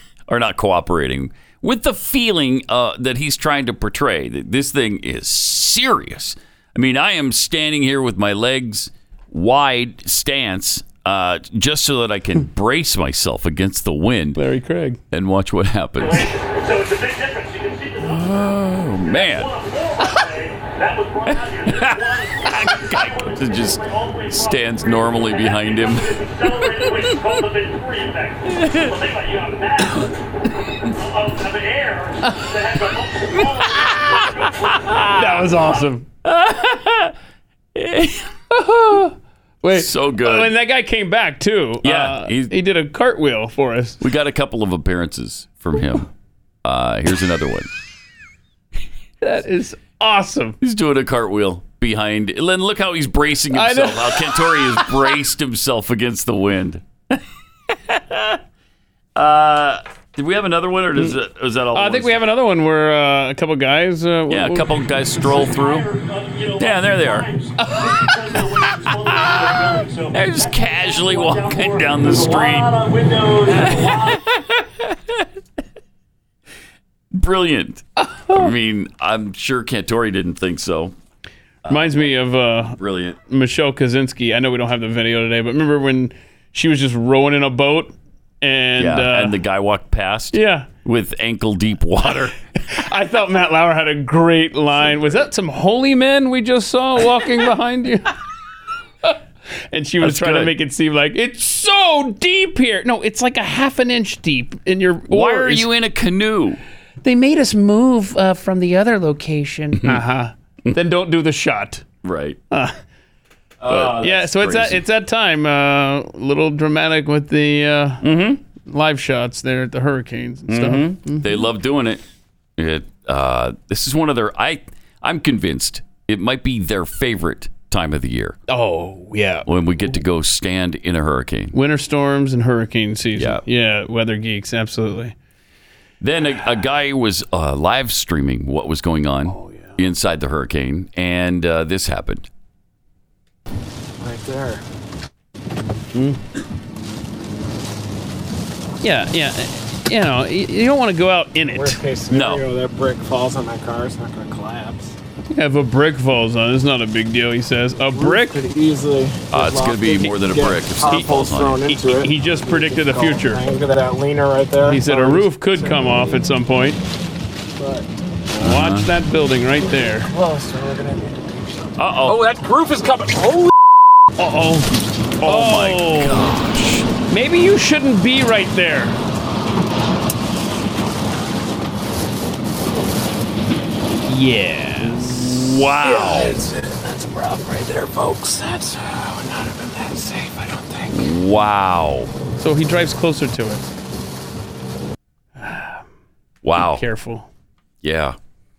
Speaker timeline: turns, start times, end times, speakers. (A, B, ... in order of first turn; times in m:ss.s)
0:00.3-0:14.4 A
0:14.4-0:15.0 B
0:15.1-0:16.3 A
0:16.0-0:30.1 C
0:18.0-0:19.5 A
0:21.3-0:27.2 A
0:28.5-0:28.9 A
0:30.9-0:35.1 C
0:33.4-0:35.6 A
0:35.2-0:36.0 B
0:35.6-0:35.9 C
0:36.2-0:37.1 A
0:37.8-0:38.3 A
0:38.5-0:44.0 B
0:39.7-0:40.5 A
0:41.8-0:42.5 A
0:44.0-0:46.1 A
0:46.6-0:47.7 A
0:49.2-0:50.6 B
0:50.6-0:57.2 A
0:53.5-0:54.9 B
0:57.7-0:58.4 A
0:59.2-1:02.2 A
1:01.7-1:04.7 B
1:04.3-1:05.9 A
1:05.2-1:14.2 C
1:06.6-1:07.3 A
1:07.8-1:12.8 A
1:13.4-1:14.4 A
1:17.1-1:20.9 A
1:18.1-1:18.4 B
1:21.6-1:23.2 A
1:21.7-1:29.4 B
1:28.8-1:32.4 A
1:30.3-1:30.7 B
1:32.7-1:38.1 B
1:39.7-1:45.7 B
1:40.0-1:40.5 A
1:45.1-1:46.6 A
1:47.0-1:51.8 B
1:52.0-1:52.4 A
1:52.5-1:52.8 B
1:53.6-1:54.8 A
1:53.7-1:58.1 B
1:58.0-1:58.4 A
1:58.6-2:01.5 B
2:00.5-2:02.0 A
2:02.6-2:08.4 A
2:08.5-2:09.5 B
2:09.5-2:11.6 A
2:11.5-2:15.2 B
2:16.0-2:22.3 A
2:19.3-2:19.8 B
2:24.0-2:24.6 D
2:26.0-2:26.2 B
2:28.8-2:31.8 B
2:31.5-2:35.0 D
2:32.1-2:32.5 A
2:35.3-2:38.5 B
2:37.9-2:46.2 D
2:39.3-2:41.7 A
2:41.7-2:43.5 B
2:44.6-2:46.8 B
2:47.6-2:48.0 D
2:48.3-2:50.1 B
2:48.4-2:48.9 A
2:49.7-2:53.5 D
2:51.8-2:52.3 A
2:54.2-2:56.3 B
2:55.2-2:56.9 A
2:57.1-2:59.0 B
3:04.0-3:06.4 B
3:05.2-3:06.4 A
3:07.5-3:08.8 B
3:09.4-3:10.0 D
3:10.9-3:12.1 A
3:12.4-3:13.7 B
3:15.4-3:15.8 B
3:16.4-3:16.8 A
3:16.6-3:17.3 B
3:17.8-3:18.2 A